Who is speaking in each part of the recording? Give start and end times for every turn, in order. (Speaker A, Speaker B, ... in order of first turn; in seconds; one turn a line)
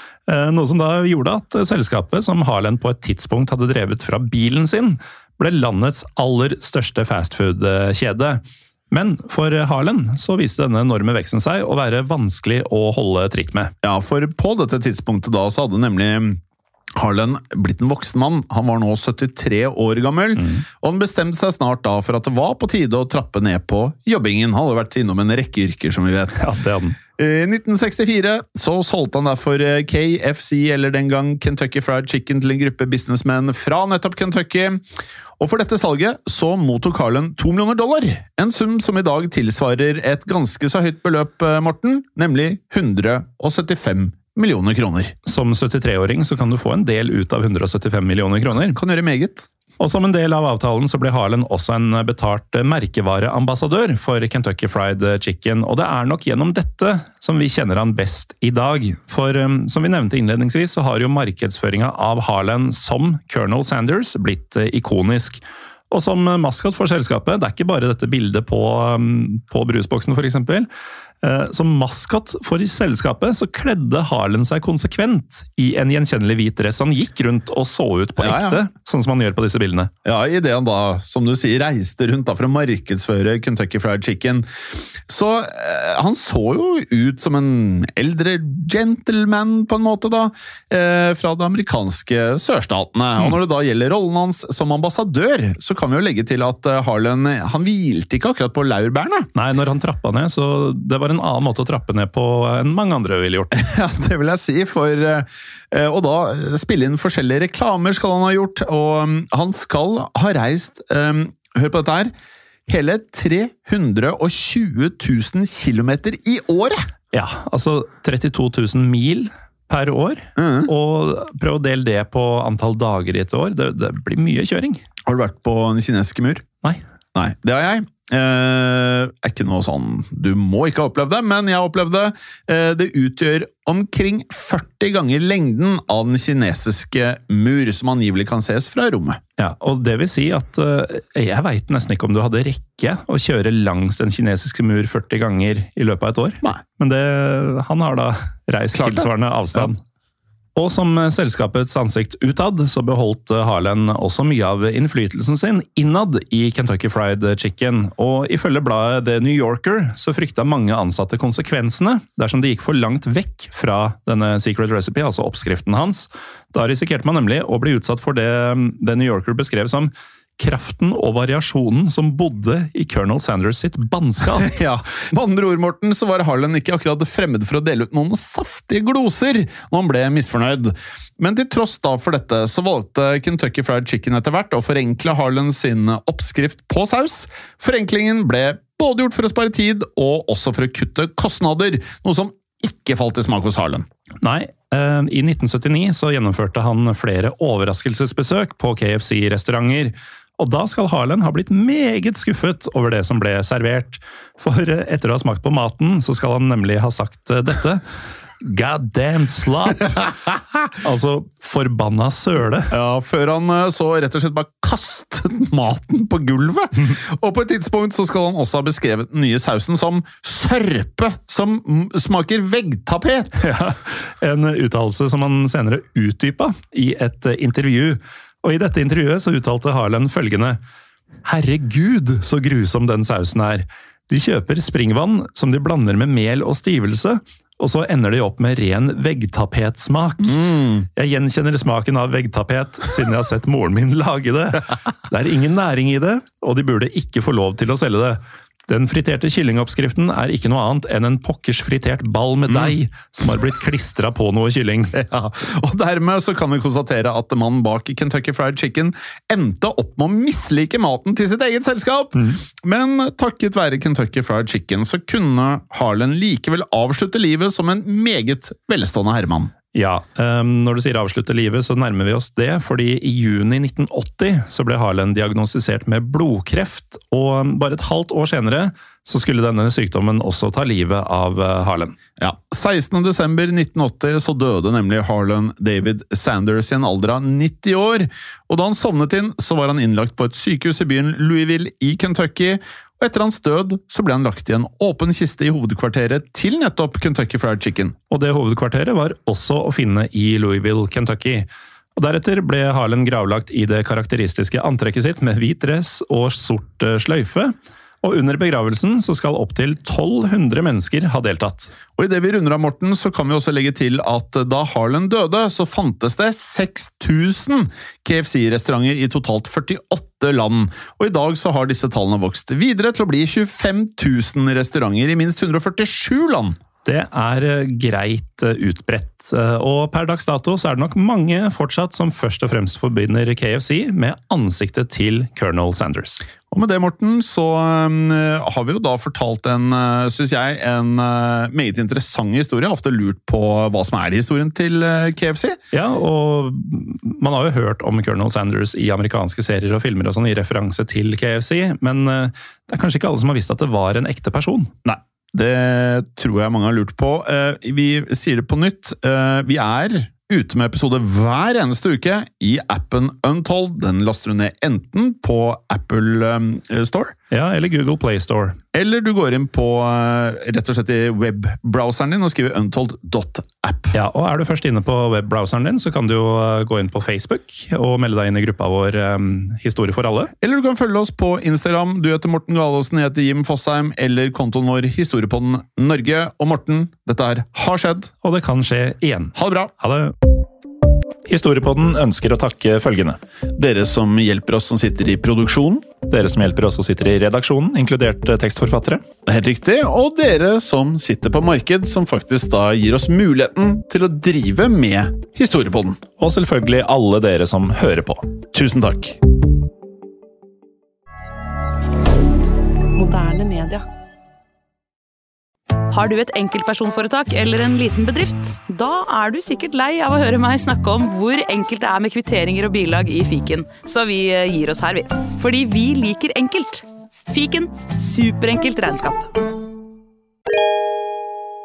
Speaker A: 0.3-13.7
Speaker B: 13.8-16.4
Speaker B: 17.0-26.5
Speaker A: 20.4-20.6
Speaker A: 26.4-27.0
Speaker B: 27.2-34.8
Speaker B: 35.4-45.1
Speaker A: 45.2-48.8
Speaker B: 48.7-49.5
Speaker A: 49.8-70.7
Speaker A: 71.2-79.9
Speaker B: 78.2-78.6
Speaker B: 80.0-99.3
Speaker A: 99.3-103.6
Speaker B: 103.5-112.1
Speaker B: 112.7-116.9
Speaker A: 117.1-124.8
Speaker B: 120.4-120.7
Speaker B: 125.1-126.5
Speaker B: 127.2-139.2
Speaker A: 139.4-149.8
Speaker B: 148.8-149.7
Speaker A: 150.6-174.5
Speaker B: 174.4-193.9
Speaker A: 194.2-207.8
Speaker A: 208.4-210.1
Speaker A: 210.7-212.7
Speaker B: 212.7-223.5
Speaker A: 223.4-230.6
Speaker A: 231.2-254.9
Speaker B: 240.2-240.9
Speaker B: 252.5-252.8
Speaker B: 254.9-269.5
Speaker A: 262.2-262.4
Speaker A: 269.7-282.0
Speaker B: 282.2-297.9
Speaker A: 298.1-311.7
Speaker B: 312.0-326.6
Speaker A: 326.9-336.2
Speaker B: 336.5-345.6
Speaker A: 345.7-354.7
Speaker B: 354.9-367.1
Speaker A: 367.3-368.6
Speaker B: 368.7-374.0
Speaker A: 373.9-380.3
Speaker B: 380.4-388.1
Speaker A: 388.2-390.1
Speaker B: 389.4-389.7
Speaker A: 391.3-393.2
Speaker B: 393.6-395.9
Speaker A: 396.1-399.0
Speaker B: 399.3-406.0
Speaker A: 406.2-408.3
Speaker B: 408.5-409.2
Speaker C: 412.9-413.9
Speaker C: 415.9-429.3